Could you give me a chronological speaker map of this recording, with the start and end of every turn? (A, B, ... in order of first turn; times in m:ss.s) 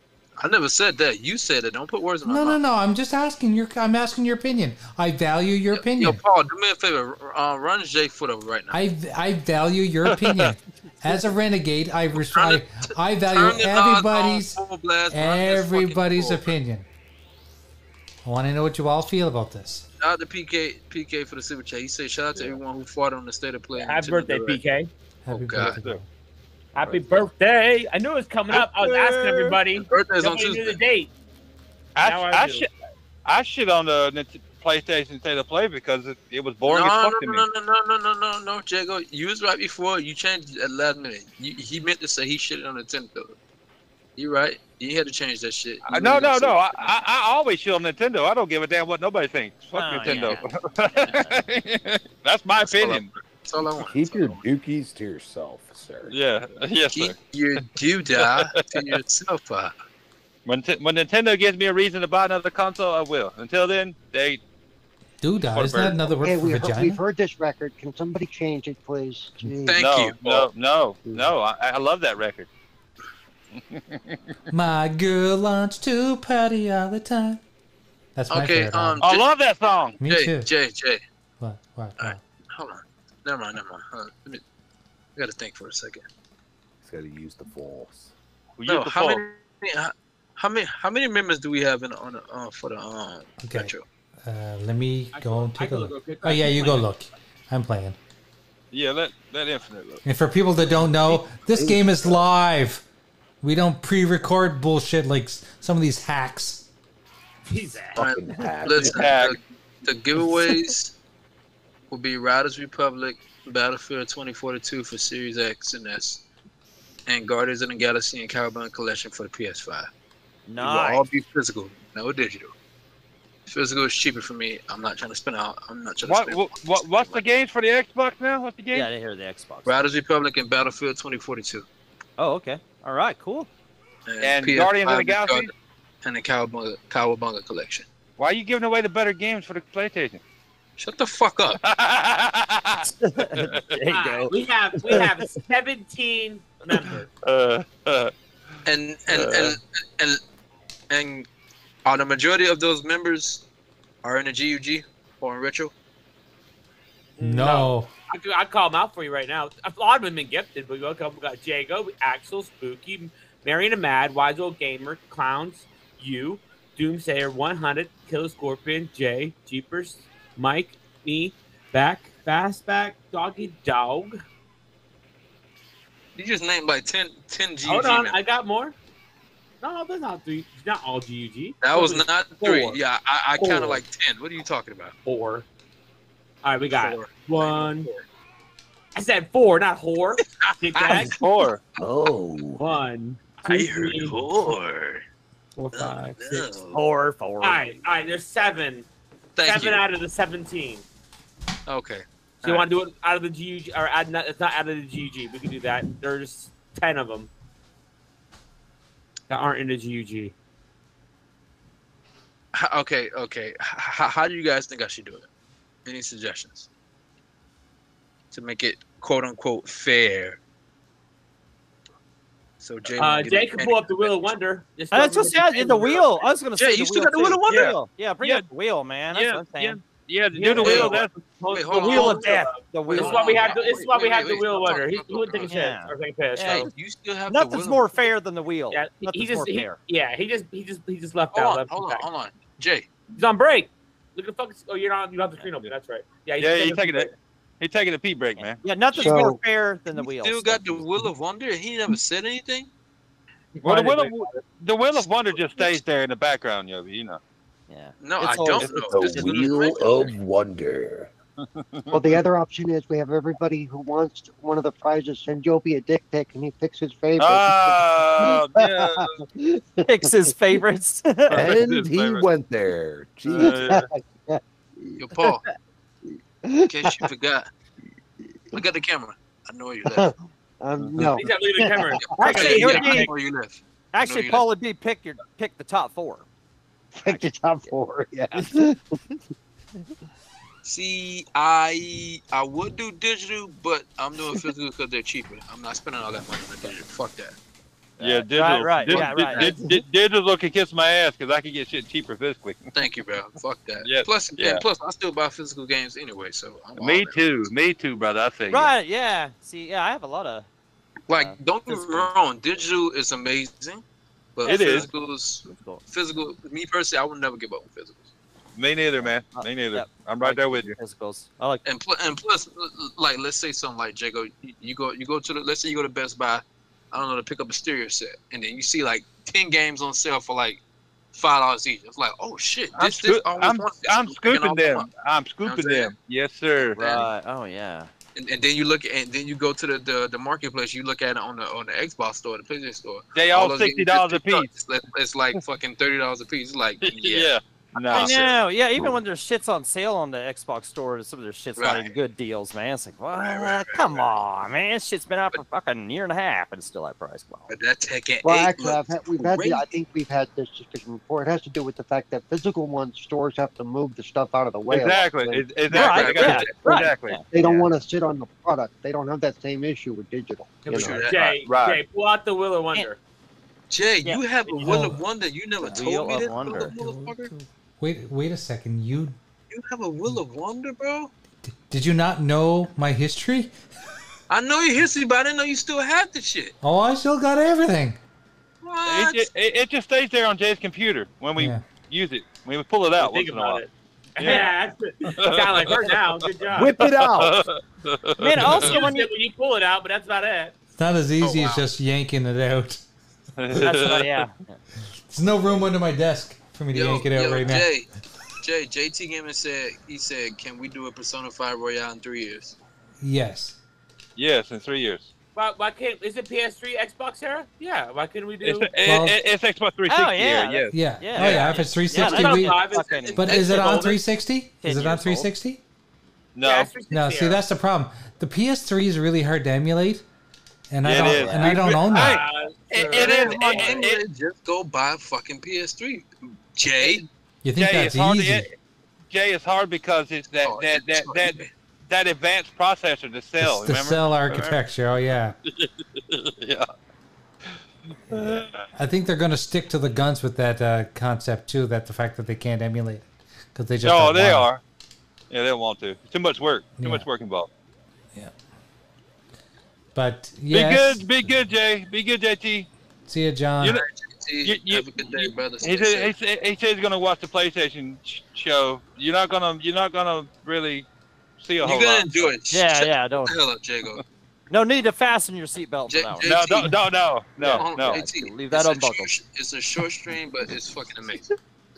0:00.4-0:02.6 A
0:02.2-0:06.2 B
0:05.7-0:08.8 A
0:08.7-0:16.8 B
0:10.1-0:10.5 C
0:12.2-0:16.5 A
0:18.2-0:19.8 B
0:20.0-0:24.6 A
0:23.7-0:24.9 D
0:25.2-0:26.0 B
0:25.3-0:25.8 A
0:25.6-0:26.0 C
0:26.7-0:31.1 D
0:26.8-0:27.3 E
0:28.5-0:29.6 C
0:29.9-0:30.8 A
0:32.0-0:32.7 C
0:32.0-0:32.7 D
0:33.2-0:37.4 C
0:36.7-0:43.4 A
0:44.2-0:46.6 A
0:45.8-0:53.1 C
0:49.7-0:51.4 F
0:52.6-0:54.4 A
0:53.8-0:56.2 E
0:56.1-0:57.2 C
0:56.9-0:59.7 A
0:58.2-0:58.8 C
1:00.4-1:04.4 C
1:05.2-1:07.0 B
1:05.5-1:06.1 C
1:06.2-1:09.8 G
1:09.6-1:10.5 A
1:09.8-1:12.5 C
1:11.0-1:11.3 G
1:13.6-1:14.2 C
1:14.5-1:17.4 B
1:18.1-1:19.0 B
1:18.3-1:19.3 A
1:19.0-1:20.0 C
1:20.0-1:20.5 B
1:20.0-1:21.0 A
1:21.4-1:22.2 B
1:22.0-1:24.4 A
1:25.2-1:26.0 A
1:26.8-1:28.1 E
1:28.6-1:29.2 C
1:28.6-1:33.8 A
1:33.4-1:33.7 B
1:34.2-1:38.0 B
1:35.1-1:36.8 D
1:38.7-1:40.0 C
1:40.0-1:42.8 B
1:41.5-1:42.2 E
1:43.4-1:46.7 B
1:47.4-1:48.0 D
1:47.9-1:49.1 E
1:48.0-1:50.9 A
1:48.8-1:49.4 C
1:51.9-1:56.2 A
1:57.0-1:59.9 A
2:00.5-2:01.0 F
2:00.6-2:02.5 A
2:03.5-2:07.2 A
2:06.0-2:08.9 C
2:08.7-2:09.8 F
2:09.6-2:11.6 A
2:12.2-2:13.5 F
2:14.0-2:15.5 A
2:14.2-2:15.5 C
2:16.0-2:17.9 A
2:18.2-2:20.2 C
2:20.8-2:21.6 A
2:21.6-2:23.7 C
2:23.0-2:25.1 F
2:23.9-2:27.1 D
2:27.2-2:28.1 C
2:28.6-2:30.2 A
2:29.1-2:29.6 C
2:30.9-2:31.3 A
2:31.8-2:33.4 A
2:34.0-2:35.7 A
2:37.2-2:54.2 D
2:37.2-2:37.9 B
2:56.1-2:58.2 A
2:57.6-2:58.8 D
2:59.6-3:02.8 D
3:01.6-3:05.0 A
3:03.4-3:03.8 D
3:05.0-3:05.4 D
3:06.4-3:07.9 D
3:06.6-3:08.0 A
3:08.9-3:11.1 D
3:10.4-3:11.2 A
3:11.2-3:11.6 C
3:11.8-3:12.7 E
3:12.6-3:14.2 D
3:13.4-3:15.0 A
3:15.7-3:16.8 A
3:16.7-3:17.7 F
3:17.4-3:18.9 D
3:19.4-3:19.8 A
3:19.4-3:20.8 D
3:21.7-3:22.7 A
3:22.4-3:27.3 D
3:29.3-3:30.3 D
3:32.5-3:35.3 A
3:35.8-3:36.7 A
3:38.3-3:40.4 A
3:42.6-3:44.3 A
3:43.0-3:46.2 D
3:44.9-3:49.8 F
3:46.6-3:47.8 A
3:47.5-3:48.4 C
3:49.1-3:51.1 C
3:50.3-3:56.7 D
3:50.5-3:50.9 F
3:50.6-3:51.0 A
3:51.5-3:55.5 A
3:51.7-3:53.6 F
3:55.5-3:56.7 F
3:56.4-3:58.1 A
3:57.3-3:59.8 F
3:58.7-4:02.1 D
4:01.3-4:02.9 A
4:03.1-4:07.1 D
4:06.4-4:08.6 C
4:08.4-4:11.0 F
4:08.9-4:09.4 G
4:09.9-4:12.7 A
4:13.6-4:14.1 D
4:13.6-4:17.2 C
4:17.7-4:19.3 F
4:18.0-4:20.1 A
4:18.9-4:21.1 E
4:21.5-4:22.2 C
4:21.9-4:30.6 G
4:27.2-4:29.2 C
4:29.8-4:31.4 F
4:31.3-4:32.2 C
4:31.3-4:33.6 E
4:33.3-4:33.9 C
4:33.3-4:35.4 G
4:35.0-4:35.4 A
4:36.4-4:37.1 G
4:36.7-4:37.5 A
4:38.5-4:40.1 A
4:39.8-4:42.5 G
4:41.0-4:43.1 D
4:42.1-4:44.4 A
4:42.2-4:43.1 F
4:43.9-4:46.2 F
4:47.0-4:48.8 G
4:48.3-4:48.6 F
4:50.6-4:57.4 A
4:58.0-4:59.8 F
4:58.0-5:02.6 C
4:58.9-4:59.5 A
5:02.7-5:07.3 A
5:03.8-5:04.6 C
5:06.8-5:08.7 C
5:08.5-5:10.5 F
5:11.1-5:13.8 A
5:11.1-5:12.1 F
5:14.4-5:18.1 A
5:14.4-5:14.9 C
5:14.4-5:15.8 F
5:18.6-5:20.8 C
5:19.0-5:21.6 F
5:21.6-5:30.6 A
5:31.1-5:34.9 A
5:32.7-5:36.8 C
5:35.4-5:35.9 A
5:36.6-5:37.1 A
5:36.8-5:37.9 F
5:38.1-5:48.4 A
5:43.1-5:44.5 C
5:46.8-5:48.1 C
5:47.9-5:57.5 F
5:51.6-5:51.9 A
5:53.1-5:54.2 A
5:57.5-5:59.7 A
5:58.2-6:05.5 G
6:04.7-6:07.2 C
6:05.7-6:06.5 A
6:05.7-6:07.7 F
6:07.3-6:11.0 G
6:10.6-6:13.0 D
6:10.7-6:11.4 A
6:11.4-6:11.8 C
6:13.7-6:17.3 A
6:14.0-6:14.8 F
6:14.5-6:14.9 D
6:14.6-6:14.9 B
6:15.6-6:17.5 F
6:17.8-6:19.2 B
6:19.5-6:21.1 A
6:21.4-6:23.5 B
6:24.3-6:26.5 A
6:26.6-6:28.0 B
6:28.6-6:29.3 A
6:28.8-6:33.6 C
6:31.4-6:31.6 B
6:33.0-6:36.8 D
6:34.2-6:34.4 C
6:34.2-6:34.5 F
6:35.1-6:35.9 C
6:36.5-6:37.4 E
6:37.1-6:38.7 C
6:38.2-6:39.1 F
6:38.3-6:40.5 D
6:40.8-6:42.8 B
6:41.2-6:41.6 A
6:43.4-6:44.2 C
6:43.6-6:44.6 F
6:45.1-6:47.7 B
6:46.7-6:47.9 A
6:48.4-6:52.6 A
6:53.0-6:53.6 B
6:54.2-6:55.1 C
6:55.4-6:58.7 D
6:58.4-7:01.5 C
6:58.8-6:59.2 B
6:59.9-7:03.8 F
7:00.7-7:02.6 B
7:01.2-7:04.0 D
7:03.2-7:05.6 B
7:04.6-7:05.3 F
7:06.3-7:06.7 C
7:06.4-7:07.4 D
7:06.9-7:10.0 B
7:10.7-7:12.2 B
7:10.8-7:14.0 C
7:10.9-7:11.6 F
7:11.8-7:13.8 D
7:12.9-7:17.0 A
7:17.4-7:18.5 B
7:17.6-7:18.5 C
7:19.1-7:24.6 C
7:20.4-7:21.5 A
7:23.4-7:25.4 B
7:25.4-7:26.7 C
7:28.1-7:28.6 C
7:28.1-7:34.5 B
7:33.8-7:34.6 C
7:35.3-7:37.5 C
7:36.8-7:37.1 B
7:39.9-7:41.5 B
7:40.5-7:42.7 C
7:43.1-7:43.8 B
7:43.7-7:46.1 A
7:44.4-7:50.8 C
7:51.4-7:52.3 C
7:51.6-7:54.0 A
7:52.5-7:53.4 F
7:54.5-7:56.3 F
7:55.9-7:56.8 A
7:56.2-7:58.0 C
7:57.4-8:01.3 A
7:57.4-7:59.1 F